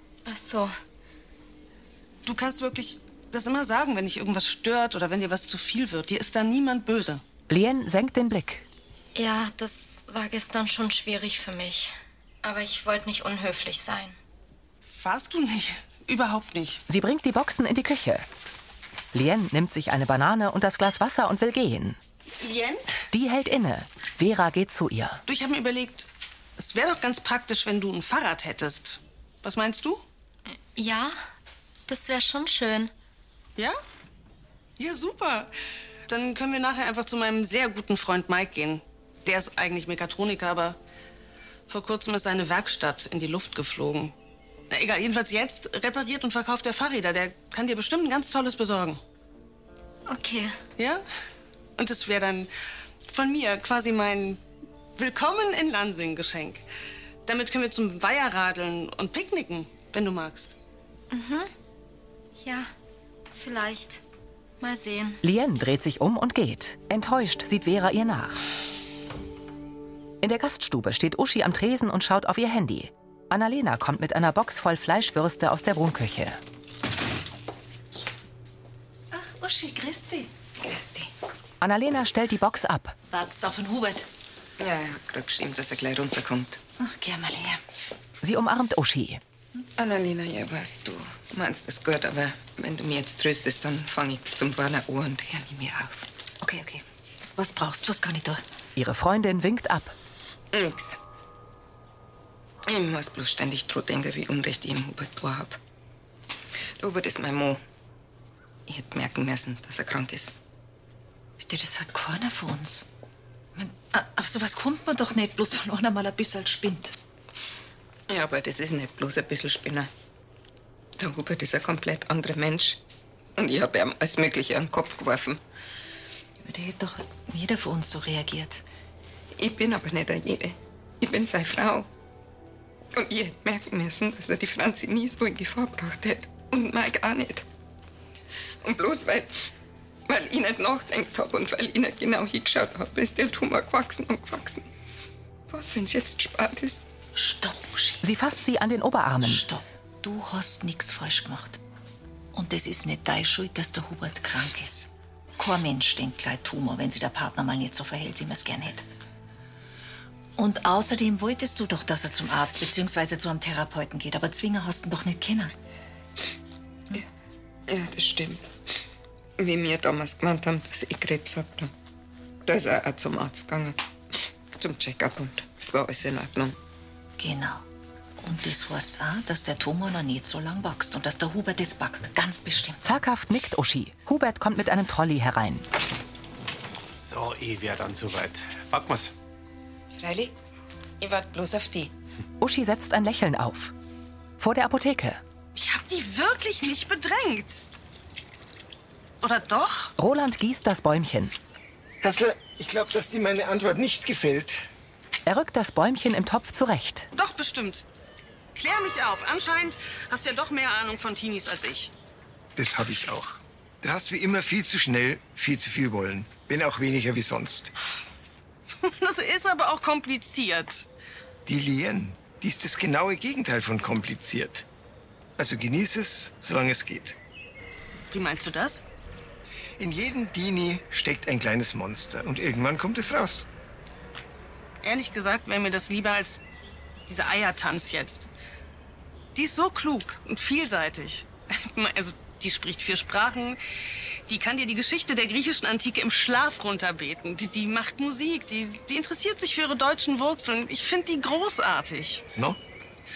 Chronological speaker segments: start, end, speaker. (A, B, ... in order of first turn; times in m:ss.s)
0:00.3-0:00.7 A
0:02.2-0:07.2 B
0:07.5-0:08.6 C
0:09.2-0:14.2 A
0:14.9-0:16.8 B
0:16.9-0:18.3 C
0:19.1-0:22.0 C
0:22.4-0:22.8 B
0:23.1-0:25.2 C
0:25.3-0:30.0 B
0:30.8-0:31.2 A
0:31.9-0:32.9 A
0:34.8-0:35.5 B
0:36.1-0:40.8 B
0:41.7-0:44.1 B
0:44.7-0:49.0 B
0:50.1-0:50.6 A
0:50.8-0:51.0 B
0:51.8-0:52.5 B
0:53.1-0:54.4 B
0:55.0-0:56.6 B
0:57.3-1:00.5 B
1:01.1-1:01.5 A
1:02.4-1:02.7 A
1:03.3-1:04.0 A
1:04.6-1:05.2 A
1:05.2-1:08.4 C
1:10.2-1:16.4 C
1:19.1-1:20.3 D
1:20.6-1:21.1 E
1:21.6-1:23.0 C
1:23.1-1:24.1 D
1:24.6-1:26.6 E
1:26.8-1:27.6 D
1:28.2-1:29.2 C
1:29.8-1:36.1 E
1:36.4-1:36.8 D
1:37.4-1:38.4 D
1:38.8-1:40.0 C
1:40.5-1:41.0 E
1:42.6-1:45.6 E
1:46.8-1:47.6 E
1:48.7-1:50.3 E
1:51.4-1:52.9 D
1:53.6-1:57.0 D
1:58.1-1:59.9 E
2:01.0-2:02.8 E
2:03.4-2:05.4 E
2:06.4-2:08.6 D
2:09.4-2:11.9 E
2:12.9-2:17.4 E
2:18.6-2:19.5 E
2:20.1-2:24.7 E
2:25.5-2:26.8 E
2:27.2-2:28.0 D
2:28.0-2:29.4 C
2:29.2-2:31.6 D
2:32.3-2:38.8 D
2:40.4-2:45.5 D
2:47.7-2:48.5 E
2:49.4-2:51.7 E
2:52.5-2:53.8 E
2:54.6-2:56.6 E
2:57.2-2:57.6 D
2:58.2-3:02.8 D
3:02.8-3:05.7 C
3:07.0-3:09.1 F
3:09.9-3:10.4 E
3:11.0-3:11.9 E
3:12.4-3:13.7 C
3:14.4-3:15.2 C
3:15.6-3:17.7 B
3:19.2-3:19.9 B
3:20.0-3:21.4 C
3:22.0-3:24.6 G
3:25.3-3:27.1 C
3:27.1-3:27.8 B
3:28.6-3:31.9 B
3:32.6-3:37.7 G
3:38.8-3:40.9 B
3:41.5-3:44.6 G
3:45.4-3:47.2 G
3:48.1-3:48.8 B
3:49.8-3:53.5 G
3:54.8-3:56.4 B
3:57.1-3:58.3 B
3:59.4-4:03.6 B
4:04.3-4:12.2 B